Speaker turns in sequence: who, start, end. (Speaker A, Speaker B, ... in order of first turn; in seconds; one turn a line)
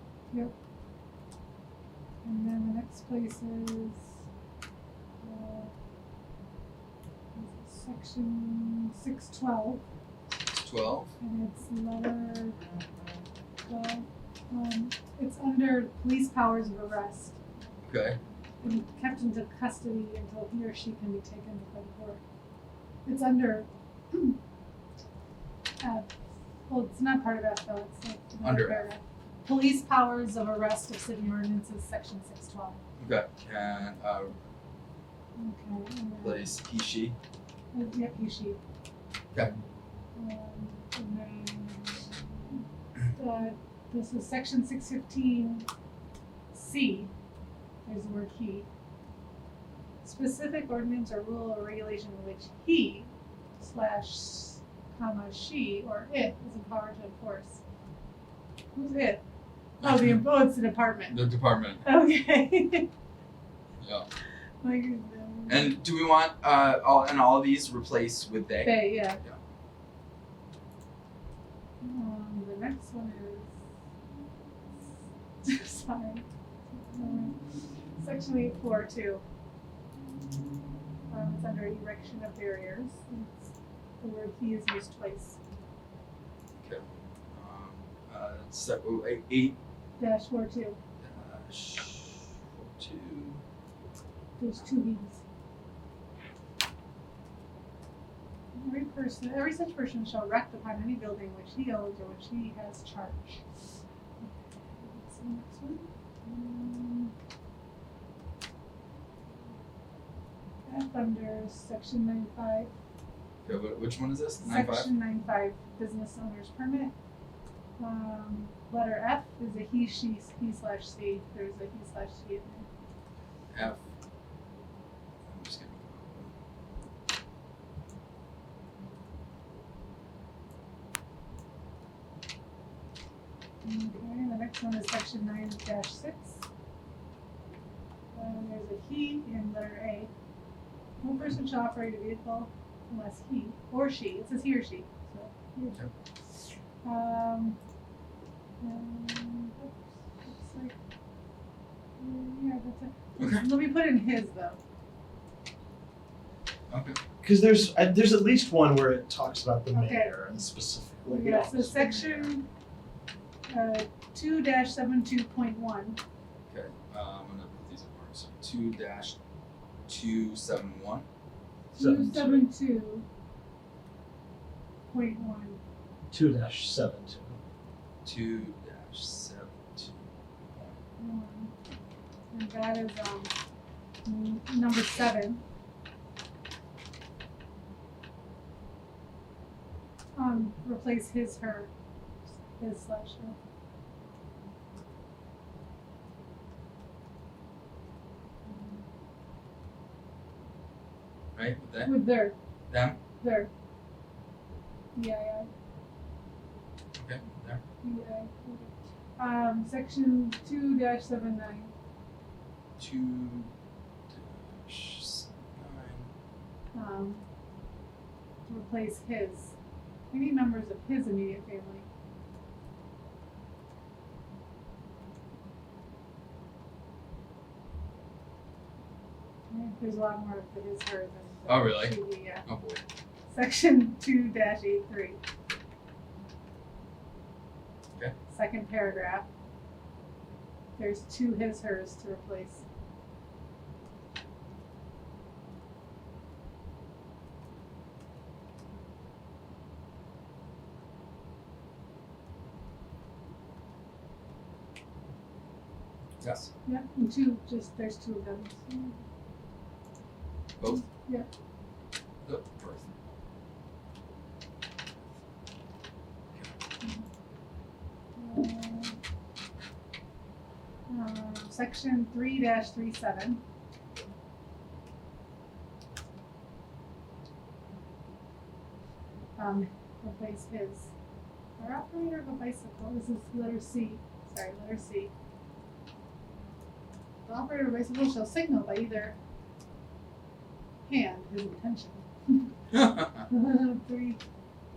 Speaker A: 2.2-4.2
Speaker A: 5.2-5.7
Speaker A: 7.3-9.8
Speaker B: 10.6-11.1
Speaker A: 11.2-12.6
Speaker A: 13.7-17.4
Speaker B: 17.9-18.2
Speaker A: 18.6-22.2
Speaker A: 23.1-24.4
Speaker A: 25.8-26.1
Speaker A: 26.7-32.8
Speaker B: 28.4-28.9
Speaker B: 33.0-34.4
Speaker A: 35.4-36.5
Speaker B: 36.2-37.2
Speaker A: 37.7-38.6
Speaker A: 40.2-45.6
Speaker A: 46.5-47.1
Speaker A: 47.9-48.7
Speaker A: 50.0-57.6
Speaker A: 58.8-59.2
Speaker A: 59.8-61.2
Speaker B: 61.1-61.9
Speaker A: 61.8-62.9
Speaker B: 63.8-64.1
Speaker A: 64.6-65.7
Speaker B: 65.5-69.4
Speaker A: 68.6-69.2
Speaker A: 71.8-73.5
Speaker A: 75.4-76.2
Speaker A: 76.9-77.4
Speaker A: 78.0-79.2
Speaker A: 81.1-85.4
Speaker B: 86.6-89.5
Speaker A: 90.0-90.8
Speaker B: 91.0-93.4
Speaker A: 94.4-95.2
Speaker A: 98.5-103.4
Speaker A: 104.2-107.1
Speaker A: 110.7-112.7
Speaker B: 113.5-114.9
Speaker A: 114.4-116.9
Speaker A: 117.8-122.7
Speaker B: 123.5-123.8
Speaker B: 125.3-126.3
Speaker A: 133.6-136.4
Speaker A: 138.2-140.1
Speaker A: 141.0-145.8
Speaker A: 146.8-147.6
Speaker A: 148.6-150.8
Speaker A: 152.0-154.6
Speaker B: 153.2-153.5
Speaker B: 156.7-157.0
Speaker C: 157.2-162.3
Speaker A: 159.7-160.1
Speaker A: 161.1-162.5
Speaker A: 163.5-166.0
Speaker B: 166.5-169.2
Speaker B: 169.9-171.1
Speaker C: 171.7-172.4
Speaker A: 171.8-173.1
Speaker A: 174.9-175.6
Speaker C: 176.1-177.4
Speaker B: 178.0-179.9
Speaker A: 181.0-181.5
Speaker A: 182.3-183.3
Speaker A: 184.1-185.4
Speaker A: 190.2-191.7
Speaker A: 192.6-193.4
Speaker A: 198.5-198.8
Speaker B: 201.3-201.9
Speaker A: 201.8-202.3
Speaker B: 202.7-203.0
Speaker A: 203.2-203.5
Speaker A: 204.9-205.5
Speaker B: 207.0-207.6
Speaker A: 207.8-211.7
Speaker B: 212.8-213.5
Speaker B: 214.1-216.1
Speaker A: 216.7-217.2
Speaker A: 218.5-219.5
Speaker A: 220.1-221.9
Speaker A: 229.5-232.4
Speaker B: 231.5-232.8
Speaker A: 233.3-235.2
Speaker A: 238.3-239.3
Speaker A: 240.8-242.6
Speaker B: 256.2-256.5
Speaker A: 256.6-259.0
Speaker B: 260.6-260.9
Speaker A: 260.8-261.3
Speaker B: 262.2-262.9
Speaker A: 266.8-267.1
Speaker A: 268.2-269.0
Speaker A: 270.9-273.4
Speaker A: 279.4-280.9
Speaker A: 281.6-285.1
Speaker A: 287.3-289.2
Speaker A: 290.9-292.5
Speaker B: 292.7-293.3
Speaker A: 293.3-294.2